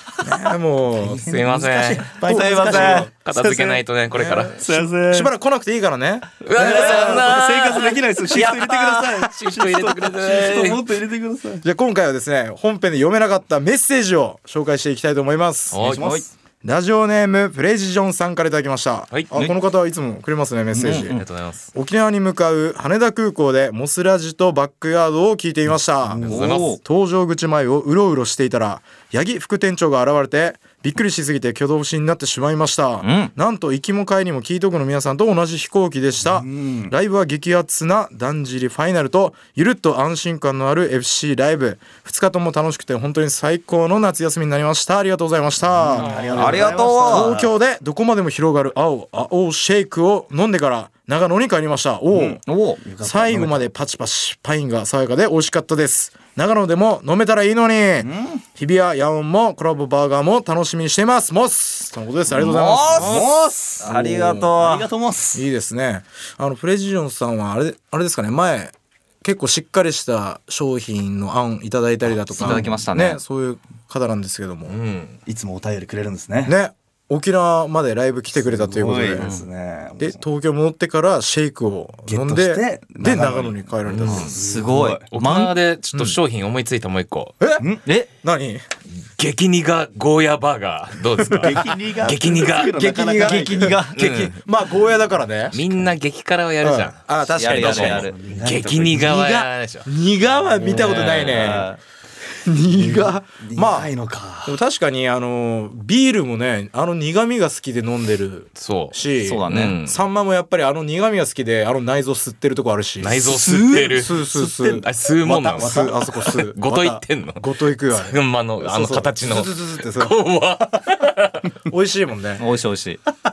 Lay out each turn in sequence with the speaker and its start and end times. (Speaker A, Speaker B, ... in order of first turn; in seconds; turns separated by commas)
Speaker A: 0.2-1.3, Speaker B: 1.0-3.1, Speaker C: 1.2-4.6, Speaker A: 2.3-7.2, Speaker B: 4.6-5.3, Speaker C: 6.4-10.8, Speaker B: 6.6-11.6, Speaker A: 11.6-15.8, Speaker C: 15.7-16.2, Speaker B: 15.8-16.3, Speaker A: 16.6-21.2, Speaker B: 20.7-21.1, Speaker C: 21.0-21.7, Speaker A: 21.7-52.4, Speaker B: 26.0-26.8, Speaker C: 26.2-26.8, Speaker D: 33.0-33.3, Speaker B: 36.2-36.9, Speaker B: 45.9-47.5, Speaker C: 46.0-46.7, Speaker D: 46.4-47.4, Speaker B: 52.1-53.7, Speaker D: 52.5-52.8, Speaker A: 53.0-63.2, Speaker B: 58.0-58.4, Speaker D: 62.3-63.3, Speaker B: 62.9-63.9, Speaker D: 63.8-64.9, Speaker A: 63.9-64.5, Speaker B: 64.6-65.4, Speaker A: 65.3-74.8, Speaker D: 72.1-73.2, Speaker C: 74.7-75.2, Speaker B: 75.3-76.5, Speaker A: 76.5-79.4, Speaker B: 78.3-80.2, Speaker A: 80.0-84.3, Speaker B: 82.1-85.0, Speaker C: 83.9-87.3, Speaker D: 84.3-85.5, Speaker A: 85.9-86.2, Speaker A: 88.2-88.6, Speaker C: 89.2-92.8, Speaker B: 91.4-93.8, Speaker D: 92.8-94.4, Speaker C: 94.0-94.3, Speaker A: 94.4-95.6, Speaker C: 95.5-99.9, Speaker A: 96.6-98.0, Speaker D: 97.3-98.2, Speaker B: 97.6-99.1, Speaker A: 99.0-101.7, Speaker D: 100.6-101.8, Speaker C: 100.7-101.7, Speaker A: 102.4-103.9, Speaker B: 102.7-104.6, Speaker A: 104.4-113.3, Speaker C: 108.6-109.0, Speaker D: 109.2-109.8, Speaker C: 109.5-110.0, Speaker C: 113.0-121.5, Speaker D: 113.2-114.7, Speaker A: 113.9-120.2, Speaker B: 115.6-115.9, Speaker A: 121.7-122.4, Speaker D: 122.4-123.0